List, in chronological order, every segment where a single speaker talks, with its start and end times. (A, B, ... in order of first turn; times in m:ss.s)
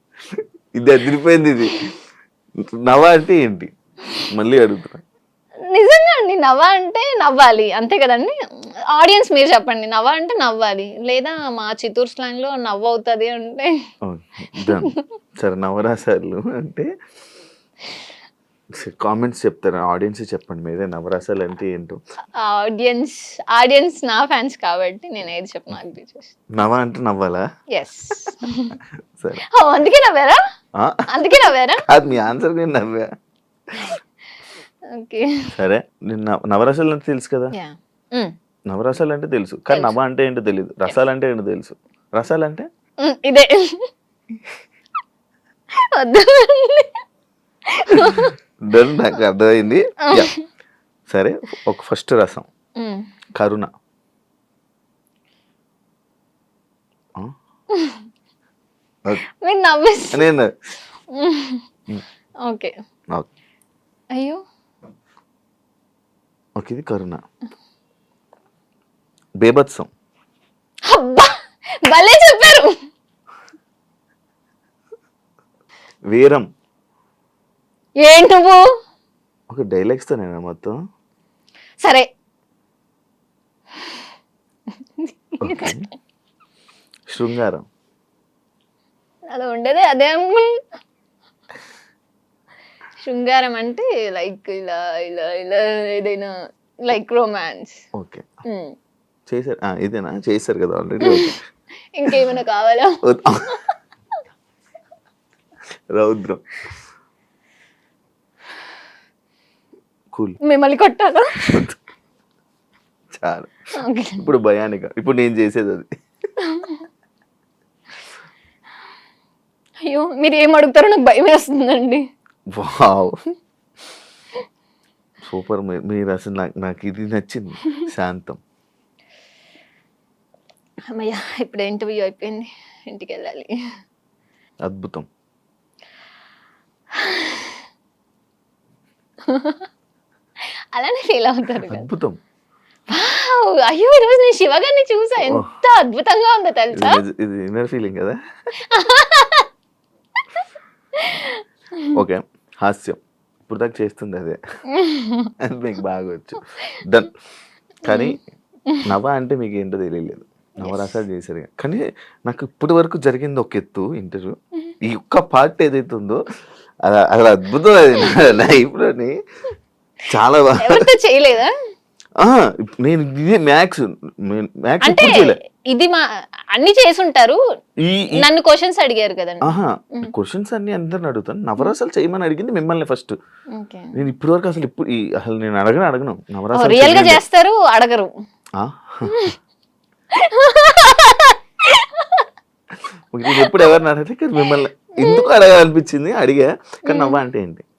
0:00.3-0:01.8 A
0:02.8-0:03.7 A
0:04.3-0:05.0 A
0:05.7-0:08.4 B
0:08.9-0:13.7 B
0:14.0-0:16.9 A
0:14.6-0:15.0 B
0:18.7-0:22.0 A
0:22.4-0:26.3 B
0:26.5-0:27.4 A
0:27.7-0:28.8 B
0:29.2-0:29.4 A
0:29.4-0:30.4 B
0:30.8-0:31.2 A
0:31.1-0:31.8 B
0:31.8-0:33.1 A
0:34.9-0:35.3 B
0:35.5-0:37.5 A
0:37.5-0:38.3 B
0:38.7-0:42.7 A
0:39.7-0:40.0 B
0:43.0-0:43.9 B
0:45.7-0:47.0 B
0:47.7-0:48.3 B
0:47.9-0:50.3 A
0:50.0-0:50.4 B
0:51.1-0:52.4 A
0:52.8-0:53.1 B
0:53.4-0:53.7 A
0:57.7-0:58.1 B
0:59.4-1:00.2 B
1:00.1-1:00.5 A
1:01.1-1:01.6 B
1:02.4-1:02.7 B
1:04.1-1:04.4 B
1:06.6-1:07.2 A
1:09.4-1:09.9 A
1:10.9-1:12.8 B
1:16.1-1:16.4 A
1:18.0-1:18.6 B
1:19.5-1:20.8 A
1:21.8-1:22.1 B
1:23.8-1:24.0 B
1:24.8-1:25.8 B
1:25.4-1:25.8 A
1:27.1-1:27.6 A
1:29.3-1:30.6 B
1:33.0-1:36.3 B
1:36.8-1:37.8 B
1:38.0-1:38.2 A
1:38.5-1:38.7 B
1:39.3-1:41.4 A
1:41.0-1:41.3 B
1:42.0-1:43.0 B
1:43.0-1:43.6 A
1:45.9-1:46.4 A
1:50.4-1:51.4 B
1:51.4-1:51.7 A
1:53.1-1:53.5 A
1:53.8-1:54.3 B
1:54.2-1:55.9 A
1:56.4-1:56.9 B
1:59.8-2:02.0 B
2:02.5-2:03.2 A
2:05.2-2:08.4 A
2:10.9-2:13.5 B
2:14.6-2:15.0 A
2:16.9-2:17.6 B
2:19.2-2:19.7 B
2:20.7-2:21.9 B
2:21.6-2:22.2 A
2:22.9-2:27.0 B
2:25.2-2:25.5 A
2:26.7-2:28.2 A
2:28.6-2:29.5 B
2:31.0-2:31.9 B
2:31.9-2:34.4 A
2:34.7-2:35.3 B
2:35.4-2:37.1 A
2:37.8-2:38.2 A
2:37.9-2:38.9 B
2:38.8-2:46.2 A
2:40.6-2:41.0 B
2:46.8-2:49.2 A
2:50.1-2:50.9 A
2:50.6-2:51.5 B
2:52.2-2:55.4 A
2:54.9-2:56.0 B
2:56.5-2:57.4 B
2:57.8-2:58.3 A
2:58.2-3:00.1 B
2:59.4-3:03.1 A
3:03.5-3:04.0 B
3:03.9-3:07.2 A
3:06.6-3:08.1 B
3:08.6-3:09.3 A
3:09.1-3:09.3 B
3:10.1-3:12.3 B
3:13.1-3:17.6 A
3:13.4-3:13.6 B
3:14.5-3:15.3 B
3:16.9-3:17.2 B